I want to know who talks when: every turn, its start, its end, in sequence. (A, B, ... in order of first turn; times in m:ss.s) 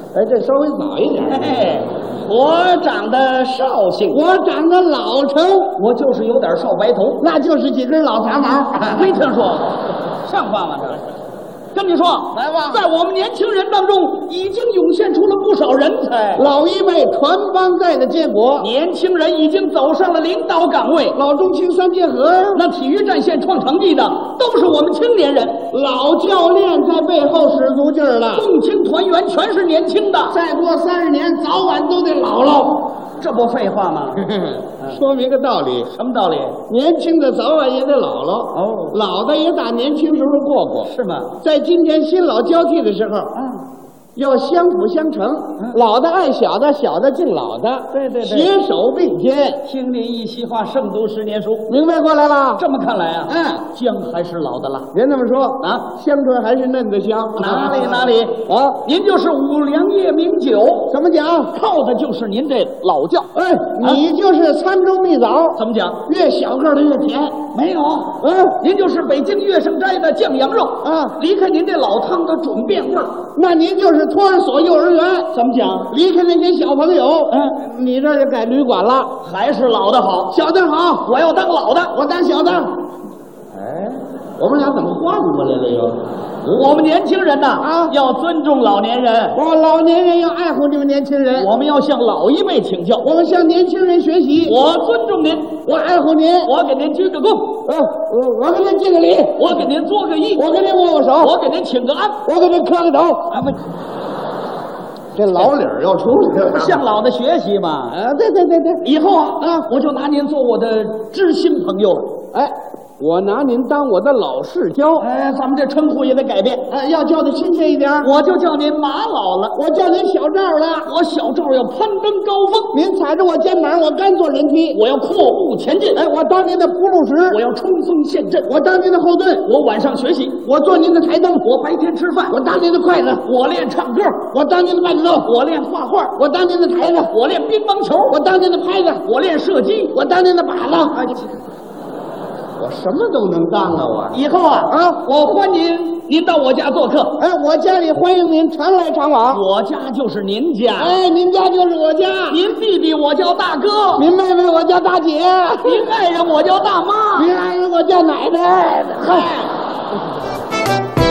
0:00.1-0:01.8 A
0:01.3-0:04.2 B
0:04.1-0:05.8 A
0:05.8-0:07.3 B
0:07.2-0:09.2 A
0:08.9-0:11.1 B
0:11.7-0:16.5 B
0:12.4-0:12.8 A
0:16.4-0:18.7 A
0:18.6-0:21.2 B
0:21.1-0:22.6 A
0:22.5-0:25.6 B
0:25.7-0:28.5 A
0:28.3-0:30.4 B
0:30.3-0:32.9 A
0:33.2-0:34.2 B
0:34.2-0:35.9 A
0:35.9-0:36.6 B
0:36.7-0:43.3 A
0:38.5-0:39.0 B
0:40.8-0:41.4 B
0:43.3-0:43.7 B
0:44.2-0:49.6 A
0:47.9-0:48.5 B
0:49.6-0:51.7 B
0:51.7-0:52.6 A
0:52.6-0:54.9 B
0:53.3-0:53.7 A
0:54.9-0:58.8 A
0:55.6-0:55.9 B
0:57.4-1:00.9 B
1:00.9-1:01.5 A
1:01.5-1:04.0 B
1:03.3-1:07.5 A
1:05.6-1:06.0 B
1:07.5-1:13.2 B
1:08.2-1:08.6 A
1:10.8-1:11.2 A
1:13.4-1:15.3 A
1:15.3-1:15.9 B
1:15.9-1:19.1 A
1:17.3-1:17.6 B
1:19.2-1:20.4 B
1:20.3-1:21.1 A
1:21.0-1:22.0 B
1:21.9-1:22.7 A
1:23.6-1:24.0 B
1:24.4-1:26.0 A
1:26.5-1:29.4 B
1:27.6-1:28.0 A
1:29.3-1:31.5 A
1:31.3-1:33.1 B
1:33.0-1:34.6 A
1:34.4-1:35.6 B
1:35.6-1:36.5 A
1:36.4-1:37.6 B
1:37.7-1:39.6 A
1:39.4-1:40.5 B
1:40.4-1:41.3 A
1:41.2-1:42.2 B
1:42.2-1:43.3 A
1:43.3-1:43.6 B
1:45.2-1:46.8 A
1:46.5-1:48.0 B
1:47.9-1:48.8 A
1:48.8-1:52.2 B
1:49.4-1:49.7 A
1:52.3-1:55.1 A
1:55.0-1:56.6 B
1:56.7-1:58.1 A
1:58.0-1:59.6 B
1:59.5-2:00.9 A
2:00.8-2:02.7 B
2:02.7-2:04.8 A
2:04.7-2:06.0 B
2:05.9-2:07.4 A
2:07.3-2:08.5 B
2:08.4-2:09.5 A
2:09.4-2:10.4 B
2:10.4-2:11.5 A
2:11.4-2:12.4 B
2:12.3-2:13.2 A
2:13.2-2:14.3 B
2:14.3-2:15.3 A
2:15.2-2:16.2 B
2:16.2-2:17.1 A
2:17.1-2:18.2 B
2:18.1-2:19.0 A
2:19.0-2:20.0 B
2:19.9-2:21.1 A
2:20.9-2:21.3 B
2:22.6-2:25.0 A
2:24.1-2:27.2 B
2:27.2-2:29.4 A
2:29.3-2:31.0 B
2:30.8-2:32.4 A
2:32.3-2:34.1 B
2:34.0-2:35.9 A
2:35.6-2:37.3 B
2:37.2-2:39.5 A